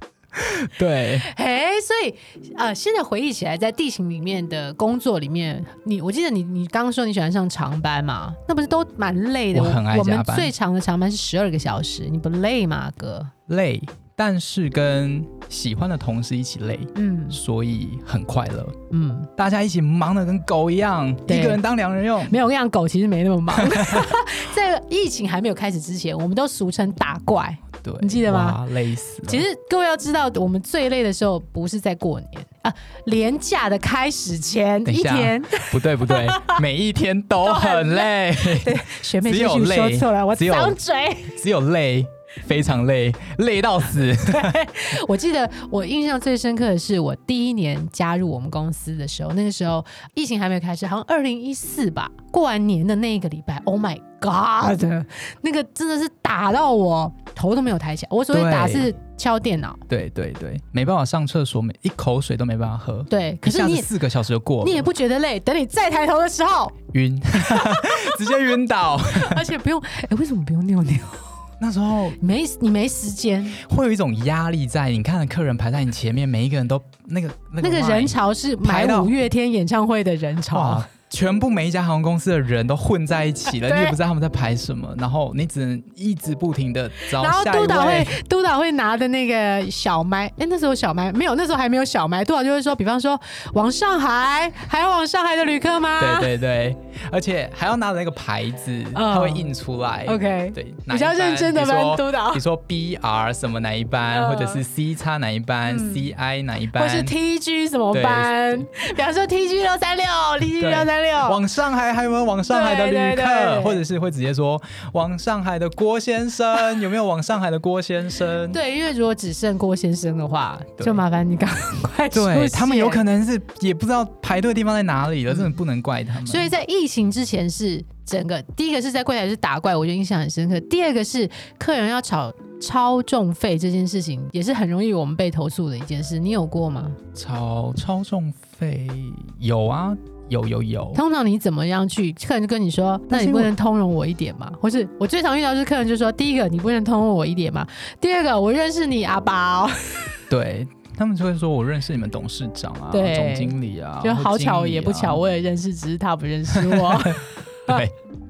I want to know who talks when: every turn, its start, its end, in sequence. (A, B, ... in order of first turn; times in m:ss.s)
0:00.4-0:01.3 A
0:01.1-0:13.3 B
0:09.5-0:10.5 A
0:13.5-0:18.8 A
0:17.0-0:17.4 B
0:18.9-0:19.3 B
0:19.4-0:22.4 A
0:21.3-0:21.6 B
0:22.2-0:28.7 B
0:23.6-0:24.1 A
0:27.8-0:29.5 A
0:29.2-0:36.6 B
0:34.8-0:44.6 A
0:37.4-0:41.4 B
0:44.2-0:59.8 B
0:58.3-0:58.9 A
0:59.9-1:04.9 A
1:03.1-1:03.9 B
1:04.6-1:06.8 B
1:06.9-1:09.4 A
1:07.5-1:08.3 B
1:09.1-1:11.3 B
1:11.6-1:12.2 A
1:12.2-1:13.6 B
1:13.5-1:19.2 A
1:17.6-1:20.8 B
1:20.5-1:28.2 A
1:23.5-1:24.0 B
1:27.1-1:36.3 B
1:36.0-1:47.1 A
1:38.9-1:39.5 B
1:40.1-1:42.4 B
1:44.1-1:44.6 B
1:45.6-1:46.1 B
1:46.7-1:51.4 B
1:47.9-1:48.6 A
1:50.6-1:58.6 A
1:52.5-1:53.8 B
1:58.5-2:03.0 B
2:02.1-2:06.5 A
2:05.3-2:05.6 B
2:06.2-2:17.0 B
2:17.2-2:21.0 A
2:20.9-2:30.2 B
2:23.1-2:23.5 A
2:30.3-2:35.2 A
2:32.9-2:37.8 B
2:36.6-2:37.1 A
2:37.7-2:38.0 A